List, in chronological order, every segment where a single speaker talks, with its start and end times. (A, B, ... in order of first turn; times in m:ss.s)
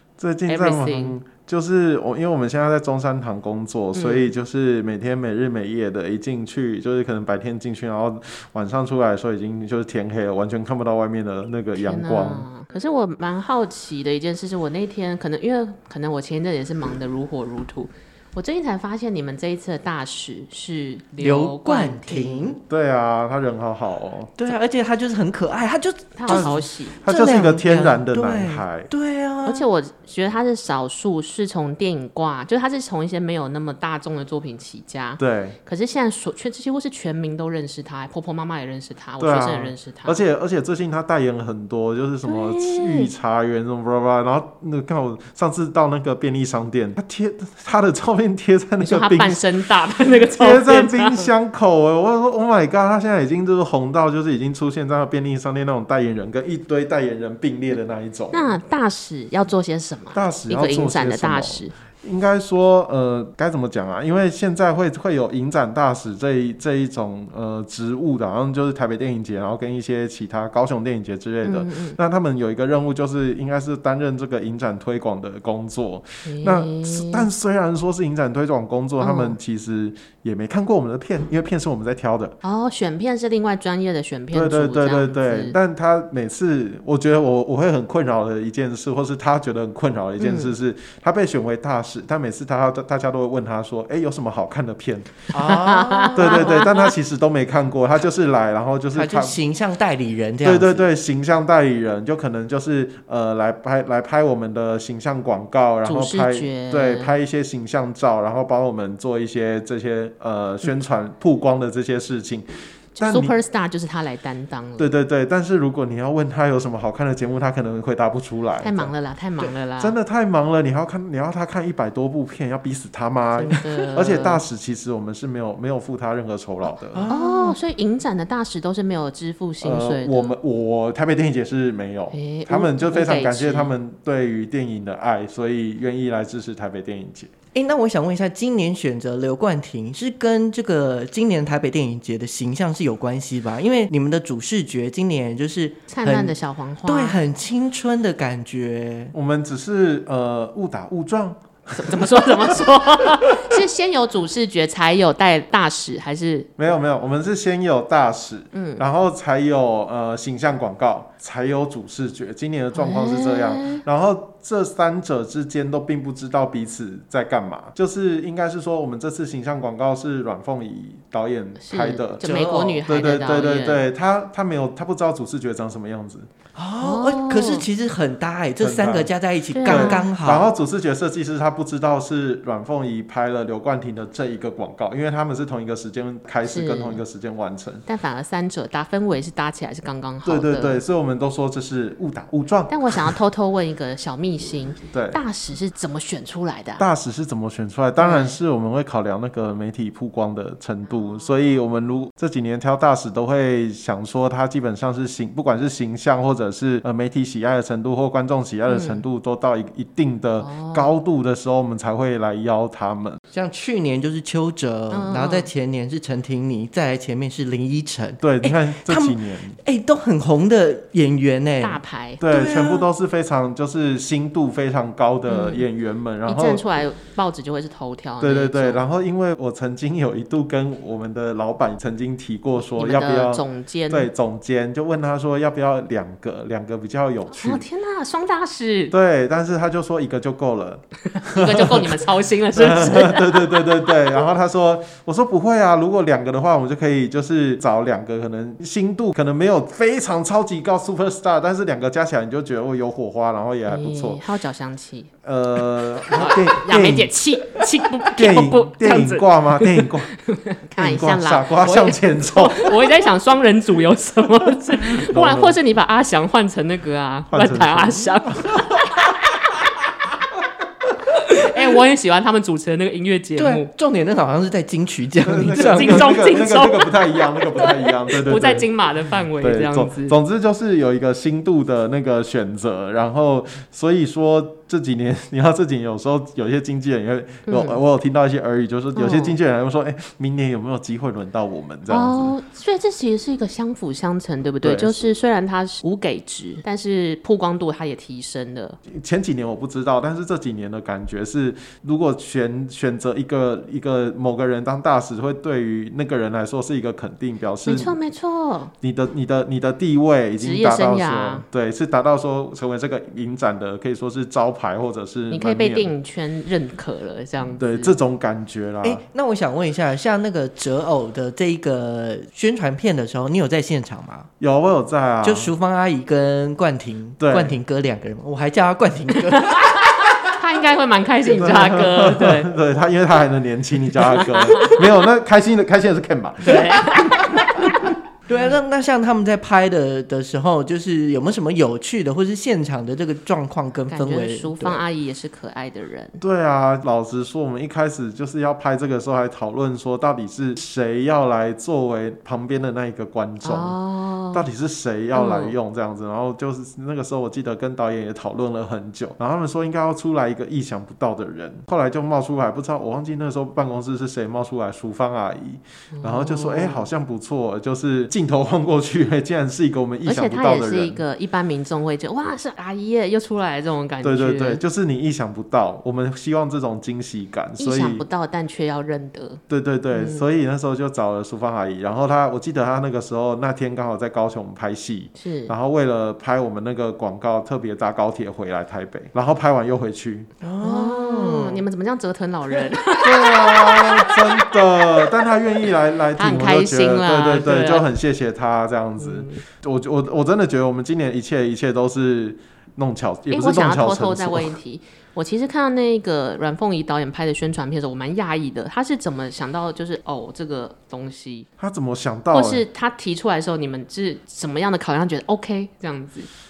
0:00.2-0:12.5 A
0:00.5-0:01.2 B
0:03.9-0:04.3 B
0:11.8-0:22.5 B
0:21.2-0:22.6 C
0:22.7-0:24.5 A
0:24.4-0:29.6 C
0:26.1-0:27.0 B
0:26.3-0:28.9 A
0:29.4-0:40.2 B
0:35.2-0:35.6 A
0:39.2-0:49.4 A
0:42.2-0:43.1 B
0:48.8-0:51.3 B
0:50.2-0:58.6 A
0:58.3-1:01.7 B
1:00.1-1:22.3 A
1:11.4-1:12.0 B
1:16.2-1:17.3 B
1:19.0-1:19.4 B
1:22.4-1:25.6 B
1:24.3-1:35.3 A
1:30.2-1:30.5 B
1:35.3-1:36.6 C
1:35.5-1:36.9 B
1:36.2-1:39.4 A
1:38.9-1:40.8 C
1:40.4-1:52.4 A
1:45.8-1:47.1 B
1:53.0-1:53.3 A
1:53.0-1:54.9 B
1:54.8-2:07.0 A
1:58.6-2:00.0 B
2:03.3-2:04.4 B
2:06.6-2:07.6 C
2:07.1-2:10.3 B
2:09.6-2:17.3 A
2:12.1-2:13.7 B
2:17.5-2:29.1 C
2:25.9-2:27.2 B
2:29.1-2:32.7 A
2:31.8-2:36.5 B
2:36.6-2:52.3 A
2:38.5-2:38.8 B
2:42.7-2:43.8 B
2:51.6-2:53.8 B
2:52.2-2:52.8 C
2:52.8-2:56.2 A
2:56.5-3:00.5 C
2:56.8-2:57.6 B
2:58.6-2:59.1 A
2:59.5-3:00.1 B
2:59.6-3:07.8 A
3:06.4-3:07.0 B
3:07.8-3:10.8 B
3:10.2-3:13.1 A
3:12.7-3:16.8 B
3:14.9-3:15.2 A
3:16.8-3:33.2 A
3:18.0-3:18.4 B
3:20.8-3:21.6 B
3:28.7-3:29.0 B
3:30.4-3:30.9 B
3:33.3-3:42.8 C
3:34.9-3:35.5 B
3:38.2-3:39.6 A
3:41.6-3:42.2 B
3:42.2-3:46.6 A
3:45.3-3:45.6 B
3:46.2-3:48.8 B
3:48.2-3:57.6 A
3:52.6-3:54.1 B
3:57.3-3:58.9 B
3:58.9-4:14.2 A
4:01.2-4:04.2 B
4:13.7-4:29.3 B
4:15.2-4:17.6 A
4:18.1-4:20.1 A
4:20.8-4:22.8 A
4:24.4-4:25.6 A
4:27.3-4:28.8 A
4:31.1-4:33.7 B
4:33.4-4:36.2 C
4:35.2-4:38.7 A
4:35.5-4:40.2 B
4:39.4-4:52.3 A
4:47.5-4:47.8 B
4:48.9-4:49.4 B
4:51.9-4:58.8 B
4:54.6-4:55.0 A
4:58.9-5:08.0 A
5:07.6-5:08.7 B
5:08.8-5:15.9 A
5:10.4-5:11.4 B
5:15.3-5:18.0 B
5:17.6-5:19.0 A
5:18.8-5:24.3 C
5:24.4-5:25.5 A
5:25.2-5:29.6 C
5:27.2-5:27.6 A
5:29.5-5:32.5 B
5:31.3-5:37.0 A
5:34.0-5:34.8 B
5:36.4-5:37.7 B
5:38.3-5:44.8 C
5:43.9-5:46.2 B
5:46.2-5:53.8 A
5:53.4-5:54.5 B
5:54.3-6:11.0 A
5:55.1-5:55.6 B
6:05.9-6:06.9 B
6:10.0-6:14.6 B
6:14.0-6:18.0 A
6:17.6-6:19.4 B
6:19.5-6:30.3 A
6:19.9-6:20.2 B
6:25.2-6:25.5 B
6:30.4-6:31.6 C
6:30.6-6:35.3 B
6:33.0-6:44.6 A
6:36.2-6:37.9 B
6:39.0-6:39.4 B
6:43.3-6:51.5 B
6:51.6-6:52.6 A
6:52.3-6:56.3 B